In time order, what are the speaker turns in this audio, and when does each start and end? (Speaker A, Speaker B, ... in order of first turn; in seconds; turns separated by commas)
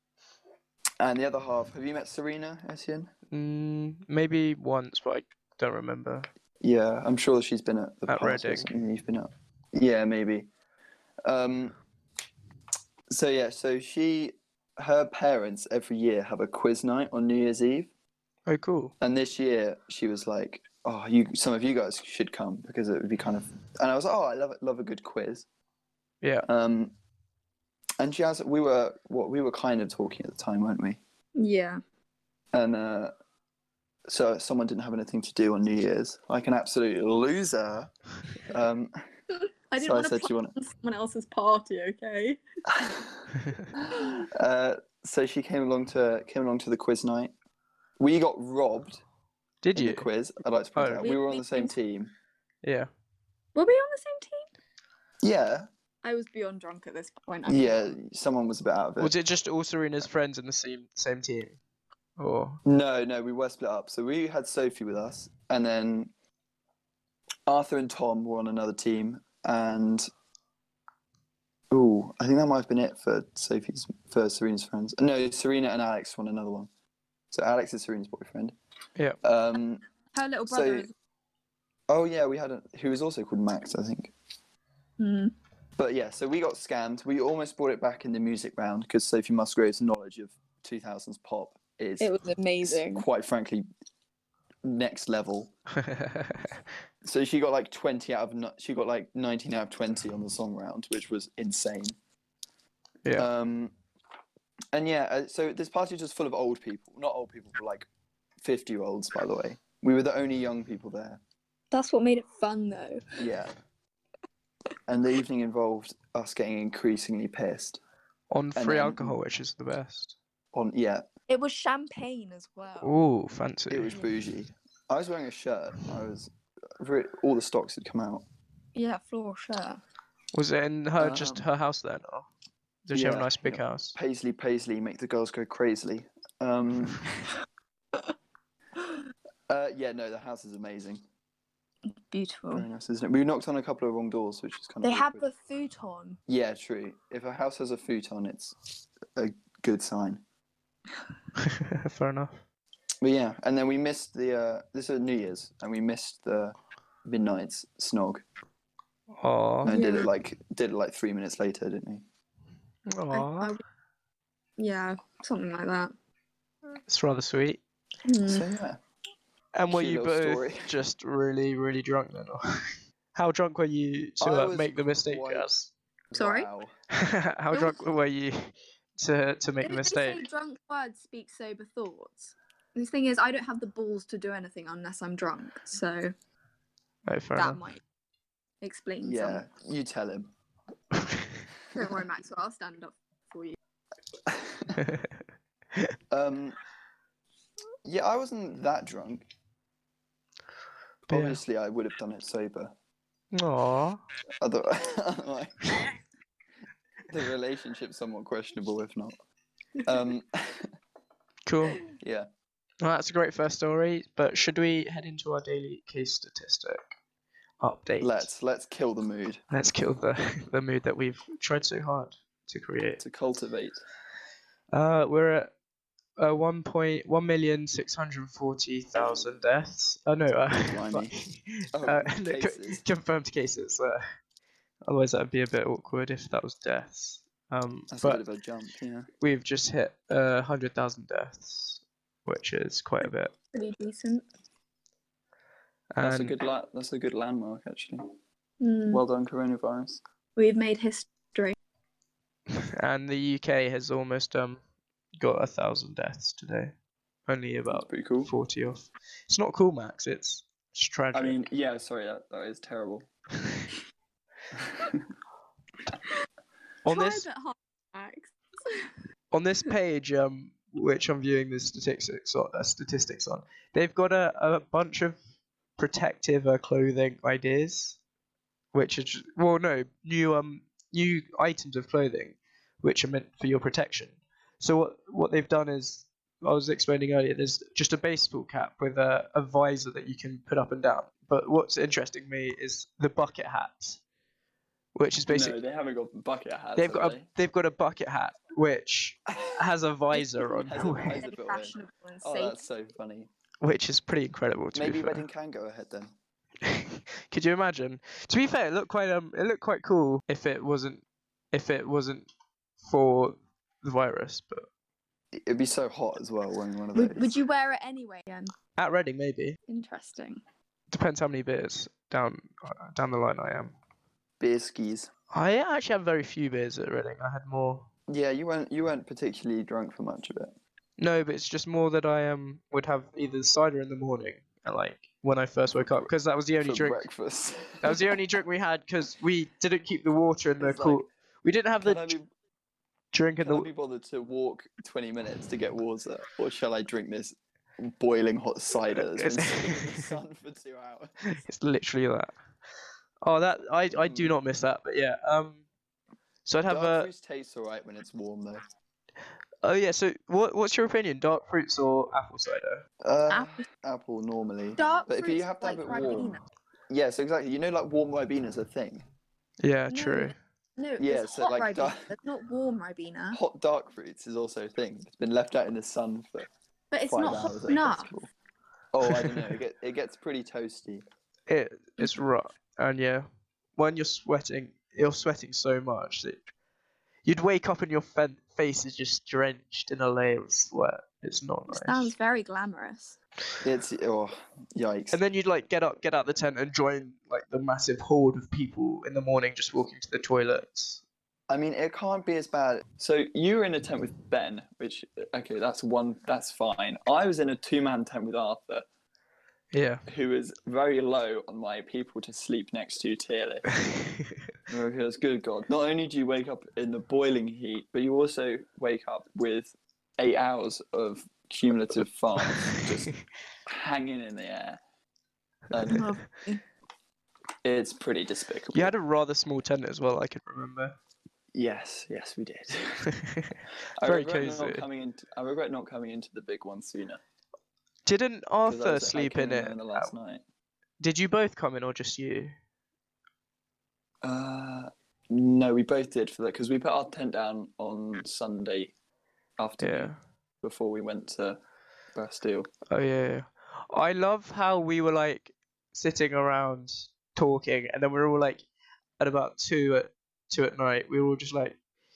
Speaker A: 1.0-3.1, Speaker B: 3.3-6.3, Speaker A: 6.6-10.5, Speaker B: 8.1-8.7, Speaker A: 11.2-11.7, Speaker A: 13.1-17.9, Speaker B: 18.5-18.9, Speaker A: 19.0-25.5, Speaker A: 26.4-26.9, Speaker A: 28.0-31.0, Speaker C: 31.4-31.8, Speaker A: 32.5-33.1, Speaker A: 34.1-38.9, Speaker C: 39.3-42.4, Speaker A: 39.8-40.5, Speaker A: 42.7-47.3, Speaker B: 43.4-43.7, Speaker C: 43.9-44.2, Speaker A: 48.0-49.0, Speaker B: 49.6-50.1, Speaker A: 49.8-52.1, Speaker B: 50.8-51.0, Speaker C: 51.0-51.8, Speaker B: 52.6-52.9, Speaker C: 53.5-54.5, Speaker A: 55.2-55.7, Speaker C: 56.0-57.9, Speaker A: 57.5-59.1, Speaker B: 59.0-61.6, Speaker B: 62.2-62.6, Speaker A: 62.6-66.1, Speaker A: 67.5-70.1, Speaker A: 71.7-76.7, Speaker A: 77.3-78.5, Speaker A: 79.2-79.8, Speaker C: 80.1-80.9, Speaker A: 80.5-80.9, Speaker A: 81.9-84.1, Speaker C: 85.0-85.3, Speaker A: 85.8-93.7, Speaker C: 92.0-93.0, Speaker A: 94.6-95.5, Speaker B: 95.8-96.5, Speaker A: 97.0-102.0, Speaker A: 103.2-103.7, Speaker A: 104.7-107.9, Speaker A: 108.4-111.2, Speaker C: 111.7-113.0, Speaker A: 113.2-113.5, Speaker A: 114.9-117.8, Speaker B: 118.3-120.2, Speaker A: 118.6-119.1, Speaker A: 120.5-121.1, Speaker C: 121.3-123.0, Speaker B: 122.8-124.0, Speaker A: 123.7-128.2, Speaker C: 128.8-129.8, Speaker B: 130.3-132.3, Speaker A: 131.0-131.4, Speaker B: 132.9-134.0, Speaker A: 132.9-137.3, Speaker A: 139.5-141.0, Speaker C: 142.0-142.7, Speaker A: 142.5-145.2, Speaker C: 144.8-146.2, Speaker A: 146.3-148.6, Speaker A: 149.1-150.2, Speaker B: 151.4-152.4, Speaker A: 153.0-156.6, Speaker A: 157.1-158.2, Speaker B: 159.2-159.8, Speaker A: 159.6-162.0, Speaker C: 159.7-160.1, Speaker B: 162.9-163.5, Speaker C: 163.1-163.6, Speaker C: 164.6-165.9, Speaker B: 166.9-167.6, Speaker C: 168.1-168.5, Speaker A: 168.3-168.8, Speaker B: 169.6-175.7, Speaker A: 169.7-170.7, Speaker A: 174.2-175.5, Speaker A: 176.1-176.7, Speaker C: 176.2-176.5, Speaker B: 176.9-180.2, Speaker C: 177.5-177.8, Speaker C: 179.6-186.1, Speaker B: 187.1-187.6, Speaker C: 187.4-187.8, Speaker C: 188.6-189.4, Speaker A: 189.0-190.3, Speaker B: 190.9-191.4, Speaker C: 191.8-193.6, Speaker A: 194.3-194.8, Speaker B: 194.8-195.2, Speaker A: 196.1-196.6, Speaker A: 197.8-199.2, Speaker A: 201.1-202.7, Speaker B: 201.1-201.4, Speaker B: 203.3-204.0, Speaker A: 204.4-205.9, Speaker A: 207.1-209.2, Speaker A: 209.8-210.7, Speaker B: 211.5-211.8, Speaker A: 212.0-212.3, Speaker B: 212.8-216.9, Speaker B: 217.6-218.3, Speaker A: 218.0-219.4, Speaker B: 219.5-223.0, Speaker A: 223.0-223.8, Speaker B: 224.7-225.5, Speaker B: 226.2-234.0, Speaker A: 230.5-231.1, Speaker A: 231.7-232.8, Speaker B: 234.8-238.2, Speaker A: 237.9-239.1, Speaker B: 239.2-243.3, Speaker C: 243.5-244.2, Speaker B: 245.9-246.3, Speaker A: 246.0-248.1, Speaker C: 248.6-249.0, Speaker A: 248.9-250.0, Speaker C: 250.4-251.6, Speaker B: 252.5-254.6, Speaker B: 255.2-256.8, Speaker B: 257.3-261.4, Speaker A: 257.7-258.3, Speaker A: 261.1-263.1, Speaker A: 264.5-265.1, Speaker B: 266.9-267.3, Speaker C: 266.9-268.9, Speaker B: 269.3-275.2, Speaker B: 275.8-278.0, Speaker B: 278.7-294.0, Speaker B: 294.9-295.6, Speaker A: 295.3-297.3, Speaker B: 296.8-301.2, Speaker A: 300.1-303.3, Speaker C: 301.1-302.6, Speaker B: 303.6-305.2, Speaker A: 304.8-306.1, Speaker B: 306.6-311.0, Speaker B: 311.5-312.3, Speaker B: 312.8-314.7, Speaker A: 315.3-317.3, Speaker C: 316.9-318.5, Speaker B: 318.8-319.6, Speaker C: 319.7-320.4, Speaker B: 320.9-323.8, Speaker A: 324.4-325.1, Speaker B: 325.3-327.9, Speaker A: 328.1-330.5, Speaker B: 331.0-337.0, Speaker A: 336.6-338.0, Speaker B: 337.8-342.1, Speaker A: 340.6-341.0, Speaker A: 341.8-342.3, Speaker B: 343.1-343.7, Speaker A: 343.4-351.3, Speaker B: 348.9-350.1, Speaker B: 351.3-352.4, Speaker B: 353.2-355.6, Speaker A: 353.9-354.4, Speaker B: 356.4-357.1, Speaker A: 356.7-358.6, Speaker B: 359.6-362.9, Speaker A: 363.0-366.4, Speaker C: 363.3-363.6, Speaker C: 364.8-366.4, Speaker A: 366.9-369.1, Speaker B: 369.6-370.3, Speaker C: 369.9-373.4, Speaker A: 371.0-372.1, Speaker A: 373.3-376.5, Speaker C: 376.9-378.1, Speaker A: 377.1-378.3, Speaker A: 378.9-381.0, Speaker B: 381.5-386.4, Speaker B: 387.2-392.1, Speaker C: 391.7-393.2, Speaker A: 393.6-395.2, Speaker B: 395.1-401.0, Speaker A: 401.5-408.9, Speaker B: 409.7-410.0, Speaker A: 410.1-413.6, Speaker B: 413.7-414.4, Speaker A: 414.7-423.1, Speaker B: 422.5-422.8, Speaker A: 423.7-424.8, Speaker A: 425.7-426.1, Speaker C: 425.9-426.6, Speaker A: 427.6-428.9, Speaker B: 428.7-431.0, Speaker A: 431.6-433.1, Speaker B: 433.1-434.9, Speaker A: 434.0-437.2, Speaker B: 438.1-440.1, Speaker A: 438.6-440.4, Speaker B: 441.0-442.5, Speaker A: 444.2-448.9, Speaker A: 449.6-451.6, Speaker B: 449.8-450.2, Speaker A: 452.1-452.7, Speaker B: 452.9-458.6, Speaker B: 459.2-461.8